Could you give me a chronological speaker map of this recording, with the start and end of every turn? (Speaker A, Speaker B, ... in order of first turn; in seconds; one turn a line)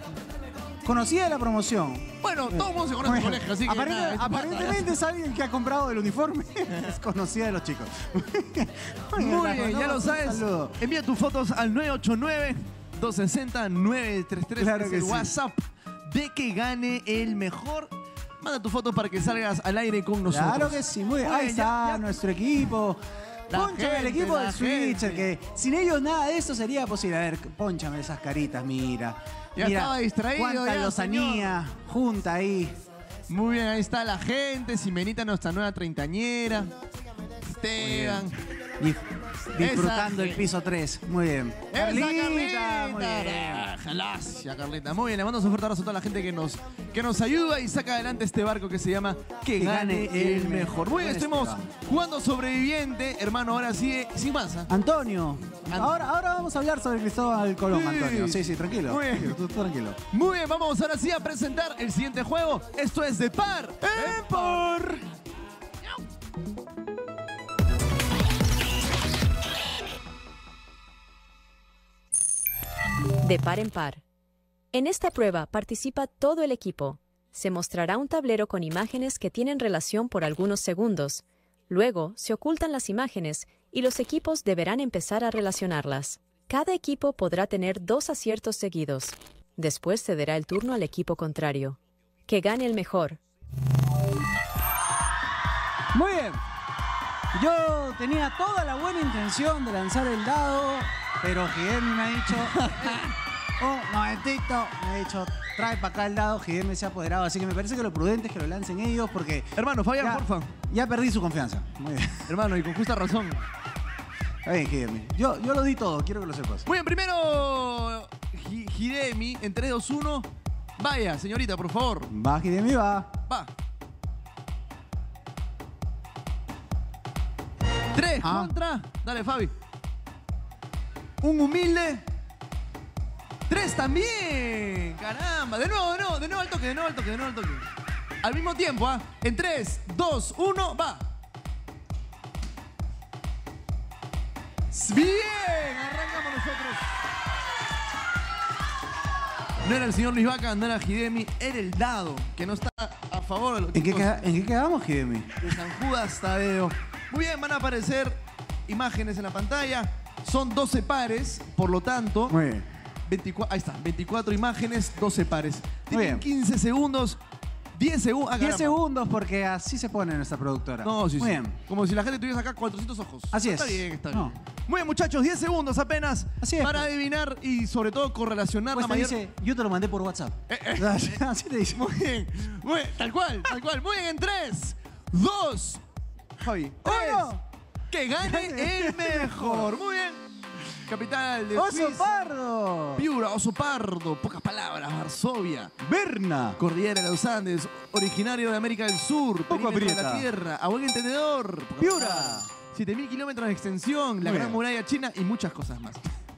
Speaker A: 0.8-10.8
Speaker B: 2.2-5.0
Speaker B: 9.1-22.0
Speaker A: 14.6-15.3
Speaker A: 20.3-32.8
Speaker B: 23.5-25.3
Speaker B: 29.6-31.5
Speaker B: 33.3-36.7
Speaker B: 37.6-38.4
Speaker A: 37.8-38.3
Speaker A: 38.8-43.7
Speaker B: 39.6-40.4
Speaker B: 41.7-54.7
Speaker A: 49.6-51.7
Speaker A: 54.7-60.0
Speaker B: 57.7-59.4
Speaker B: 60.1-64.6
Speaker A: 63.8-65.0
Speaker C: 73.2-74.0
Speaker C: 74.7-93.2
Speaker A: 95.9-96.4
Speaker A: 97.3-112.3
Speaker B: 102.4-103.1
Speaker B: 109.5-110.5
Speaker B: 112.3-113.4
Speaker A: 114.4-116.7
Speaker B: 116.7-122.1
Speaker A: 122.1-123.1
Speaker B: 127.9-129.5
Speaker A: 128.2-128.5
Speaker B: 131.2-132.0
Speaker B: 133.5-137.7
Speaker B: 138.2-141.1
Speaker B: 144.7-146.9
Speaker B: 149.6-154.1
Speaker A: 153.7-155.5
Speaker B: 155.4-162.3
Speaker A: 162.3-162.7
Speaker B: 163.1-167.2
Speaker A: 165.9-166.2
Speaker B: 167.8-168.8
Speaker A: 168.4-171.6
Speaker B: 170.8-179.2
Speaker A: 173.3-174.3
Speaker A: 176.4-176.9
Speaker A: 178.7-181.8
Speaker B: 180.5-181.2
Speaker B: 181.7-185.8
Speaker B: 186.4-187.3
Speaker A: 186.8-187.4
Speaker B: 187.9-190.2
Speaker A: 188.2-189.7
Speaker B: 190.7-192.1
Speaker A: 191.5-193.1
Speaker B: 192.9-195.7
Speaker A: 195.8-196.6
Speaker B: 196.6-206.0
Speaker A: 199.5-200.2
Speaker A: 201.8-202.5
Speaker A: 204.2-204.6